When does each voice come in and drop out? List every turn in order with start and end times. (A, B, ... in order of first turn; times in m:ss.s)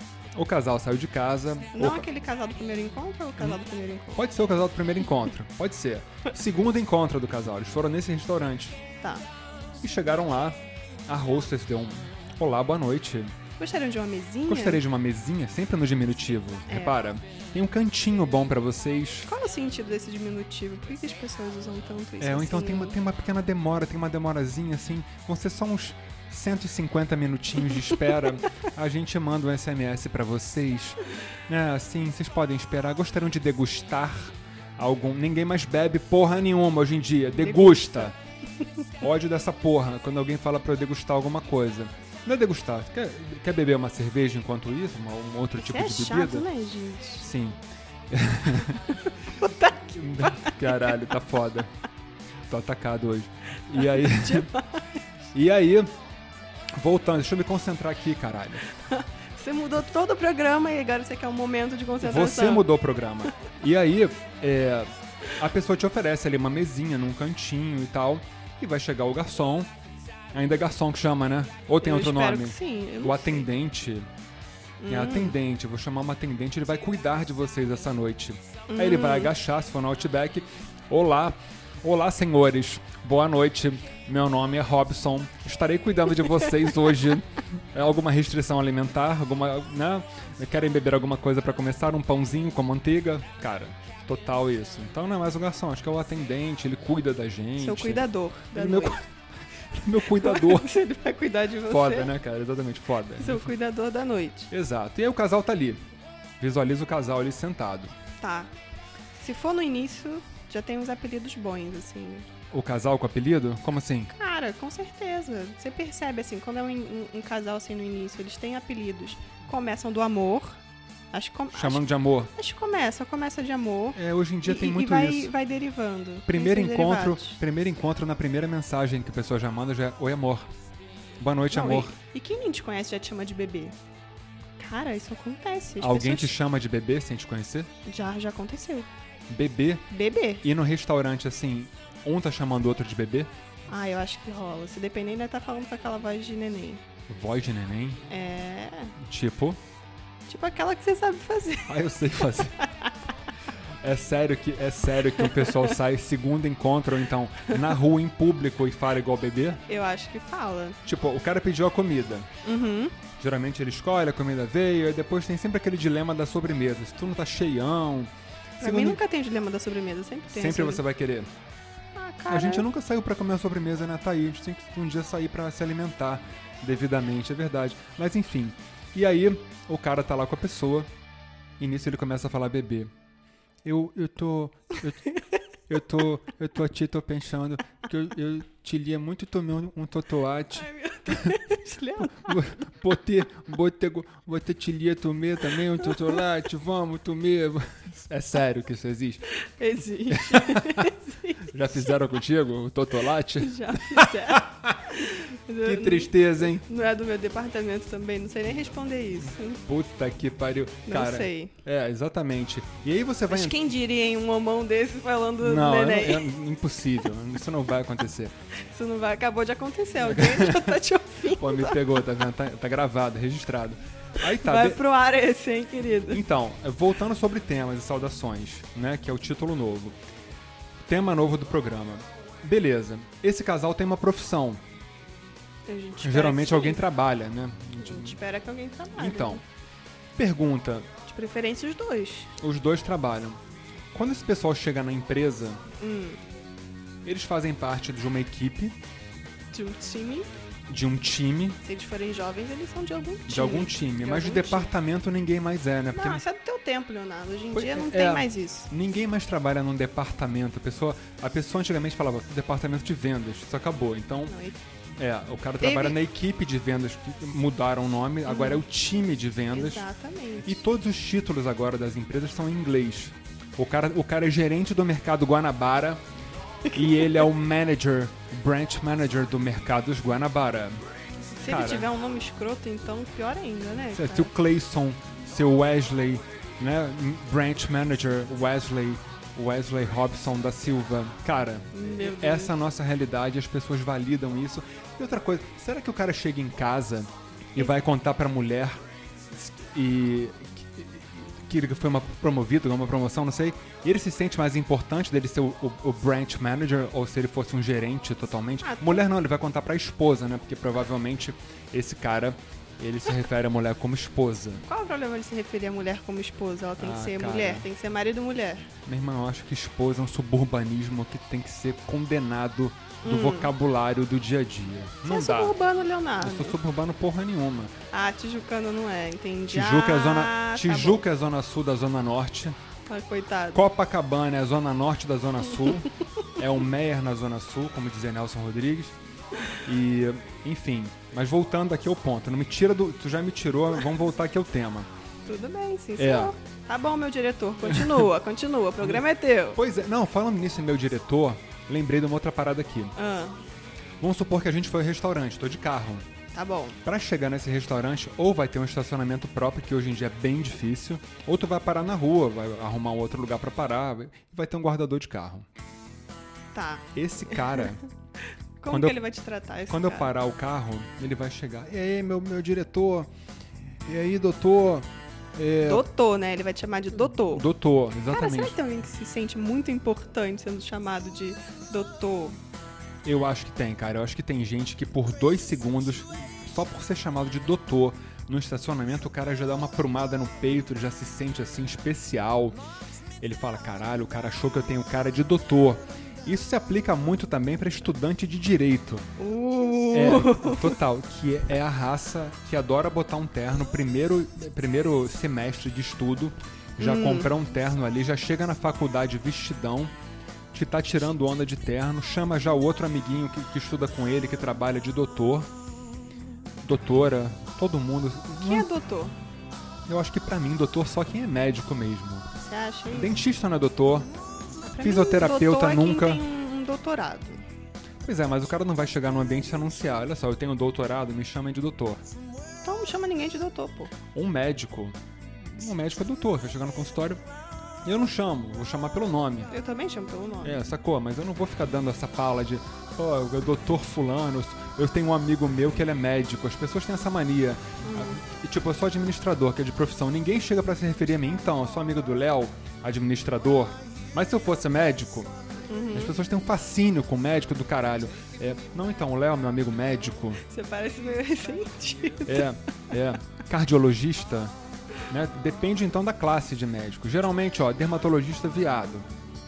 0:00.3-0:02.1 A
0:01.8-0:04.2 B
0:04.2-0:08.8 A
0:09.0-0:09.3 B
0:09.8-0:13.3 A
0:13.6-0:14.8 B
0:14.5-0:19.3 A
0:16.7-0:17.0 B
0:19.3-0:23.0 B
0:22.2-0:38.2 A
0:37.4-0:38.1 B
0:39.0-0:46.5 A
0:45.6-0:47.3 B
0:47.2-0:48.8 A
0:48.9-0:51.1 B
0:49.9-0:51.7 A
0:52.5-0:54.5 A
0:53.8-0:55.0 B
0:55.3-0:55.9 A
0:56.8-0:58.7 A
0:58.7-1:02.7 B
1:02.0-1:09.7 A
1:10.3-1:14.1 A
1:11.8-1:13.5 B
1:14.8-1:15.4 B
1:14.9-1:39.0 A
1:18.7-1:19.3 B
1:37.6-1:39.0 B
1:39.7-1:40.7 A
1:40.1-1:42.1 B
1:41.7-1:43.5 A
1:43.2-1:44.5 B
1:44.5-1:45.8 A
1:46.4-1:47.9 A
1:48.2-1:48.5 B
1:49.2-1:52.3 B
1:52.5-1:54.1 A
1:54.1-2:01.8 B
2:01.5-2:02.3 A
2:02.3-2:07.4 B
2:04.0-2:05.3 A
2:06.3-2:10.5 A
2:11.2-2:12.0 A
2:11.5-2:13.8 B
2:14.6-2:16.3 B
2:15.8-2:17.7 A
2:17.8-2:18.9 B
2:19.3-2:19.9 A
2:19.9-2:20.5 B
2:20.4-2:23.3 A
2:23.7-2:26.8 B
2:27.1-2:28.0 A
2:28.1-2:29.0 B
2:29.0-2:29.6 A
2:30.3-2:31.8 B
2:31.7-2:32.6 A
2:33.8-2:39.6 A
2:39.7-2:40.8 B
2:40.8-2:42.3 A
2:42.4-2:43.0 B
2:43.2-2:49.0 A
2:48.6-2:50.8 B
2:50.3-2:51.3 A
2:52.0-2:52.7 B
2:52.3-3:00.9 A
3:01.6-3:02.9 A
3:03.6-3:05.1 A
3:05.7-3:11.5 A
3:10.6-3:12.5 B
3:12.2-3:19.2 A
3:19.4-3:21.5 B
3:20.1-3:20.9 A
3:21.4-3:24.7 A
3:23.4-3:29.6 B
3:25.6-3:26.6 A
3:29.7-3:33.7 A
3:30.9-3:31.5 B
3:33.3-3:36.3 B
3:35.4-3:38.4 A
3:38.7-3:41.8 B
3:40.0-3:44.8 A
3:44.4-3:46.2 B
3:46.1-3:50.0 A
3:50.9-3:54.6 A
3:55.7-3:56.8 B
3:56.0-3:58.2 A
3:57.8-3:59.4 B
3:59.0-3:59.4 A
4:00.2-4:00.9 A
4:01.1-4:02.3 B
4:02.4-4:03.4 A
4:03.9-4:05.6 A
4:05.8-4:06.2 B
4:07.0-4:08.8 A
4:09.5-4:10.3 B
4:10.7-4:11.6 A
4:11.6-4:14.7 B
4:13.3-4:16.2 A
4:15.9-4:18.7 B
4:17.5-4:24.3 A
4:24.3-4:24.6 B
4:25.0-4:29.9 A
4:25.6-4:26.0 B
4:28.3-4:28.6 B
4:29.5-4:30.6 B
4:30.4-4:36.0 A
4:36.7-4:40.8 A
4:36.8-4:37.2 B
4:41.4-4:44.3 B
4:41.4-4:41.9 A
4:43.9-4:58.8 A
4:51.7-4:52.6 B
4:59.3-5:14.6 A
5:08.6-5:09.1 B
5:14.7-5:18.7 B
5:16.8-5:17.7 A
5:18.9-5:25.6 A
5:23.0-5:23.5 B
5:25.1-5:26.6 B
5:26.2-5:27.7 A
5:27.9-5:31.1 B
5:29.5-5:32.6 A
5:32.9-5:33.6 B
5:33.5-5:39.0 A
5:39.6-5:44.9 A
5:45.3-5:49.6 B
5:46.0-5:46.3 A
5:47.6-5:48.1 A
5:48.8-5:53.0 A
5:53.0-5:53.4 B
5:54.0-5:56.1 A
5:56.3-5:56.8 B
5:56.8-6:05.5 A
6:06.5-6:07.8 B
6:07.0-6:07.8 A
6:08.6-6:10.1 B
6:08.7-6:09.0 A
6:09.7-6:13.1 A
6:13.8-6:15.9 A
6:15.6-6:17.4 B
6:17.3-6:18.6 A
6:18.1-6:22.4 B
6:23.0-6:32.6 A
6:33.2-6:39.1 A
6:39.2-6:40.8 B
6:39.9-6:49.9 A
6:46.8-6:47.3 B
6:50.5-6:55.5 A
6:56.6-6:58.7 A
6:58.4-6:59.2 B
6:59.9-7:02.3 A
7:02.4-7:03.2 B
7:02.9-7:04.1 A
7:04.6-7:07.4 B
7:04.8-7:06.2 A
7:08.0-7:12.0 A
7:12.6-7:13.9 B
7:14.1-7:17.2 A
7:17.8-7:19.5 A
7:19.5-7:20.6 B
7:20.4-7:35.3 A
7:27.8-7:28.2 B
7:35.7-7:36.2 B
7:35.9-7:40.4 A
7:40.4-7:42.5 B
7:42.3-7:44.5 A
7:45.1-7:49.1 A